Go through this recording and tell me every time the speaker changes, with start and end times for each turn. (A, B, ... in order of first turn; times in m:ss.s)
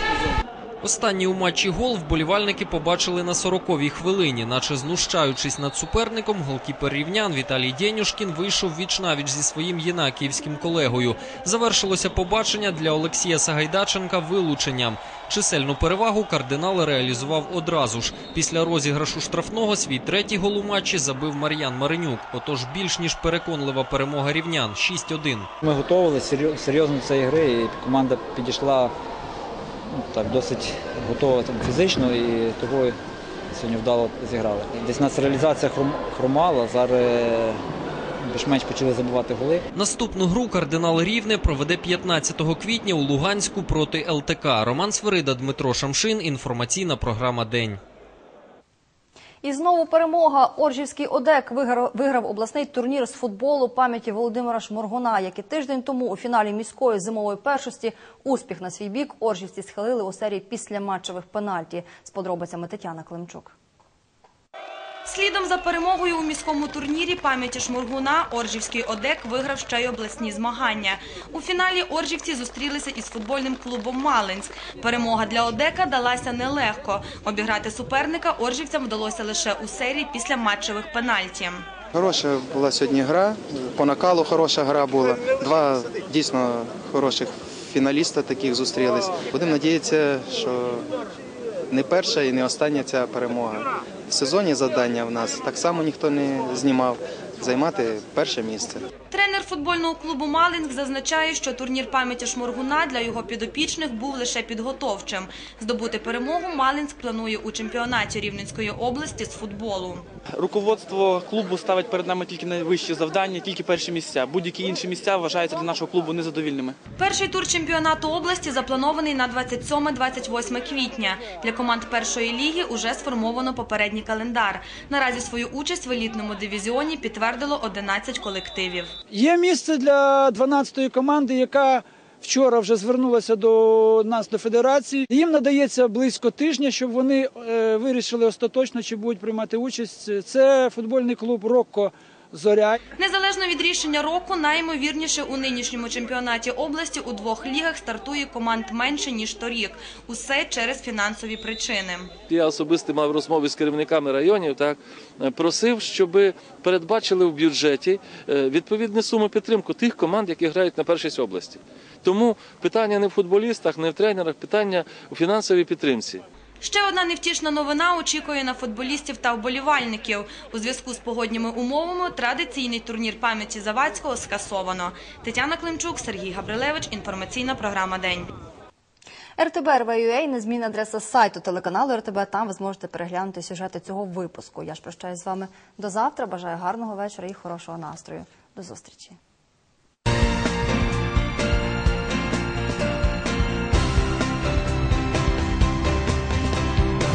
0:00.8-0:25.5 A
0:25.6-0:28.9 B
0:29.9-0:33.0 B
0:33.5-0:37.6 B
0:38.2-0:39.6 B
0:39.7-0:47.8 A
0:49.4-1:03.5 C
1:05.1-1:21.7 D
1:22.0-1:30.8 E
1:31.7-1:38.8 E
1:39.1-1:50.0 D
1:50.5-1:56.8 F
1:57.0-2:08.9 D
2:09.1-2:22.8 G
2:23.0-2:32.1 D
2:32.3-2:46.2 H
2:46.6-2:58.3 D
2:59.4-3:09.2 C